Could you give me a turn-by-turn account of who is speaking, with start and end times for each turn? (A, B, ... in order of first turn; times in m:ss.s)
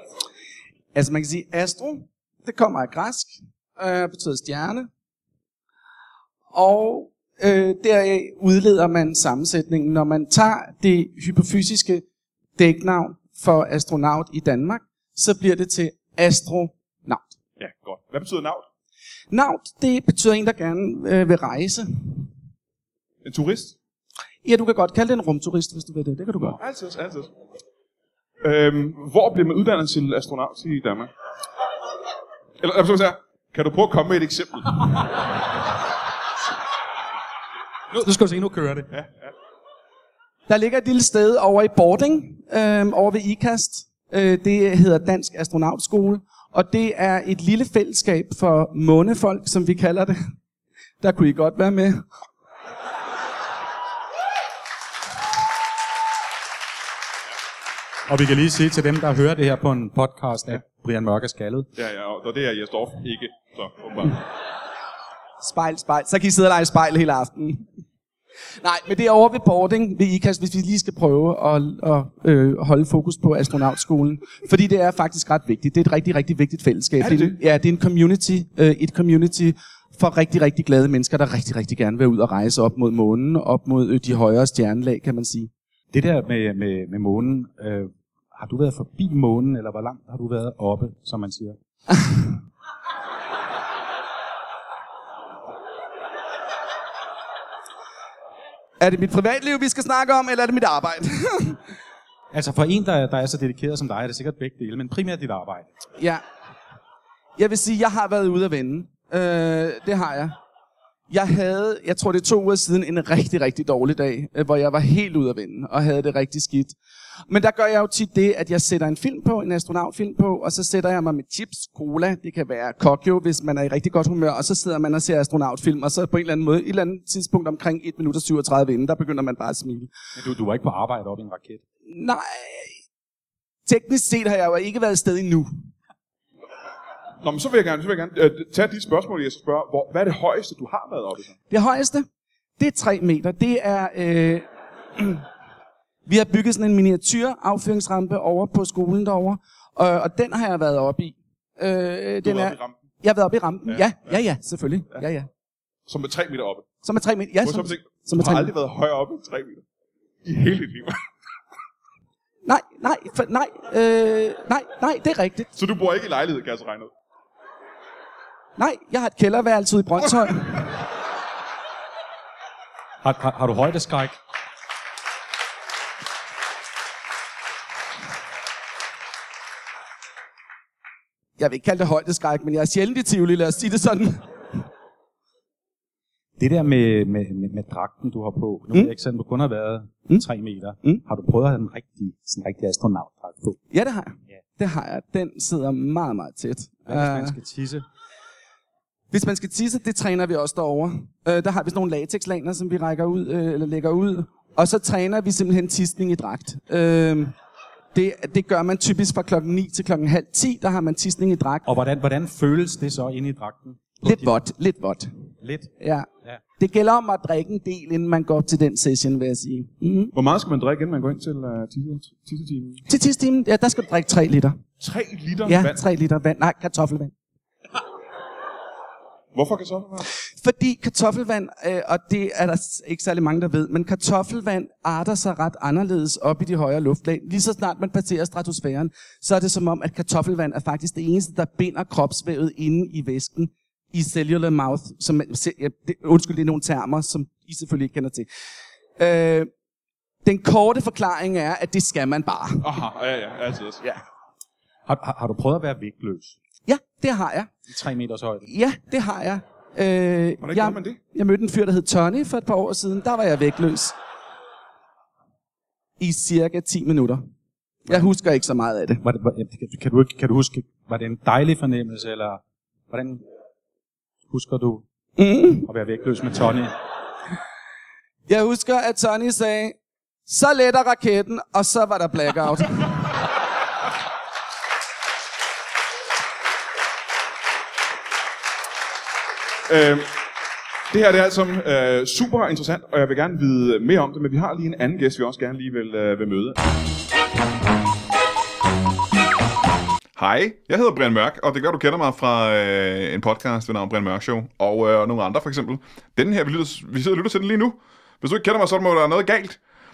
0:01.0-0:04.9 A
0:06.5-0:12.0 A
0:12.6-0:17.3 A
0:17.6-0:18.6 B
0:19.3-0:22.3 A
0:23.2-0:23.8 B
0:24.4-0:26.6 A
0:26.6-0:27.3 B
0:28.4-0:31.1 B
0:32.6-0:35.0 B
0:37.9-0:38.9 C
0:40.5-0:50.2 A
0:51.0-0:52.0 A
0:58.1-1:01.7 C
1:01.8-1:04.2 B
1:05.4-1:07.6 A
1:08.6-1:25.5 A
1:17.0-1:17.4 B
1:25.9-1:31.6 C
1:31.9-1:32.3 A
1:38.8-1:41.6 A
1:42.3-1:45.7 C
1:46.0-1:46.2 A
1:47.4-1:50.4 A
1:51.1-1:56.8 A
1:57.3-2:09.9 A
2:10.2-2:11.6 C
2:11.9-2:12.7 A
2:13.7-2:15.5 A
2:17.2-2:21.4 B
2:21.5-2:22.1 A
2:22.6-2:24.4 A
2:25.0-2:25.2 A
2:26.1-2:35.3 A
2:32.2-2:32.8 B
2:33.7-2:34.2 B
2:35.9-2:36.7 B
2:36.8-2:38.5 A
2:37.4-2:39.6 B
2:40.2-2:41.1 B
2:42.5-2:45.5 A
2:45.6-2:46.9 B
2:48.6-2:50.7 A
2:53.0-2:54.2 C
3:01.4-3:04.6 A
3:06.4-3:13.6 C
3:13.7-3:17.4 A
3:16.9-3:17.8 C
3:19.1-3:27.3 A
3:27.9-3:31.7 A
3:31.7-3:34.4 C
3:34.0-3:35.1 A
3:35.4-3:36.4 C
3:35.8-3:40.1 A
3:40.1-3:42.8 B
3:42.9-3:44.6 A
3:44.8-3:45.8 B
3:45.4-3:47.1 A
3:49.3-3:50.1 B
3:50.4-4:08.3 A
4:09.0-4:09.5 A
4:10.2-4:12.8 A
4:12.6-4:13.8 B
4:14.9-4:16.4 C
4:16.7-4:17.5 A
4:17.7-4:18.5 C
4:18.5-4:23.9 A
4:20.4-4:21.0 B
4:26.0-4:27.2 A
4:27.9-4:29.0 A
4:29.0-4:33.2 C
4:34.3-4:34.8 C
4:35.2-4:35.7 A
4:35.6-4:36.7 C
4:38.3-4:42.9 A
4:49.7-4:50.1 B
4:50.9-4:56.6 B
5:00.2-5:09.6 D